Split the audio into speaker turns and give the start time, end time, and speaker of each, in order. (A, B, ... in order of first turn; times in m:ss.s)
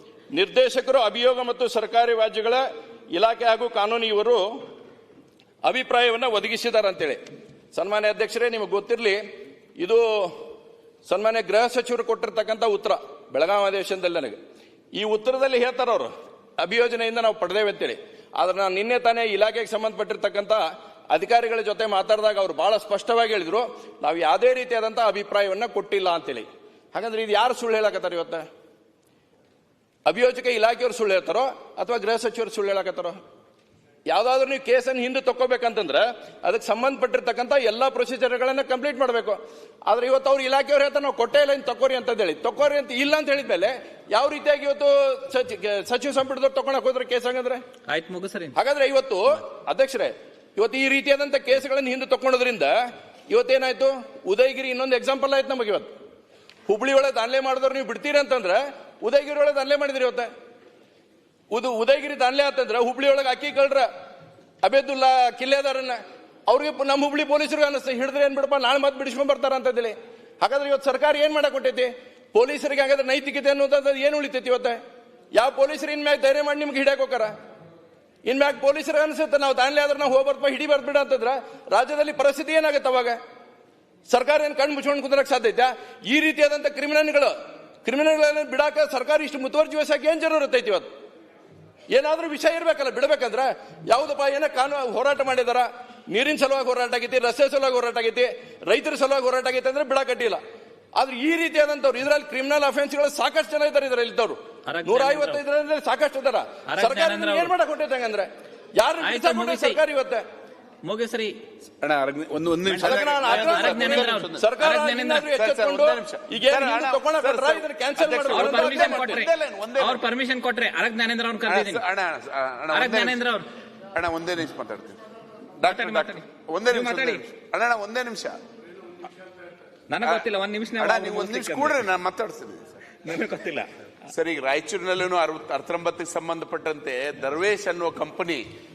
0:00.3-0:04.4 A
0:05.6-0:07.2 A
0:07.7-0:09.2 A
0:09.8-0:10.4 A
0:11.0-0:14.4 A
0:14.9-0:28.4 A
0:30.0-0:33.2 A
0:34.1-0:47.6 A
0:47.9-0:48.5 B
0:48.5-0:55.9 A
0:56.7-1:00.3 A
1:01.5-1:03.9 A
1:04.6-1:14.8 A
1:15.3-1:17.3 A
1:18.2-1:23.2 A
1:24.1-1:30.9 A
1:31.9-1:40.4 A
1:40.9-1:50.2 A
1:44.7-1:45.4 B
1:46.7-1:47.5 B
1:49.0-1:49.8 B
1:50.8-1:51.4 B
1:51.8-1:54.5 C
1:52.7-1:55.3 B
1:52.8-1:59.2 A
1:55.3-2:00.1 C
1:58.2-2:01.8 B
2:01.5-2:03.2 C
2:02.7-2:03.5 B
2:03.9-2:05.0 C
2:05.6-2:08.4 C
2:05.6-2:07.2 B
2:09.9-2:11.8 B
2:10.8-2:12.8 C
2:13.0-2:13.7 B
2:14.1-2:18.4 C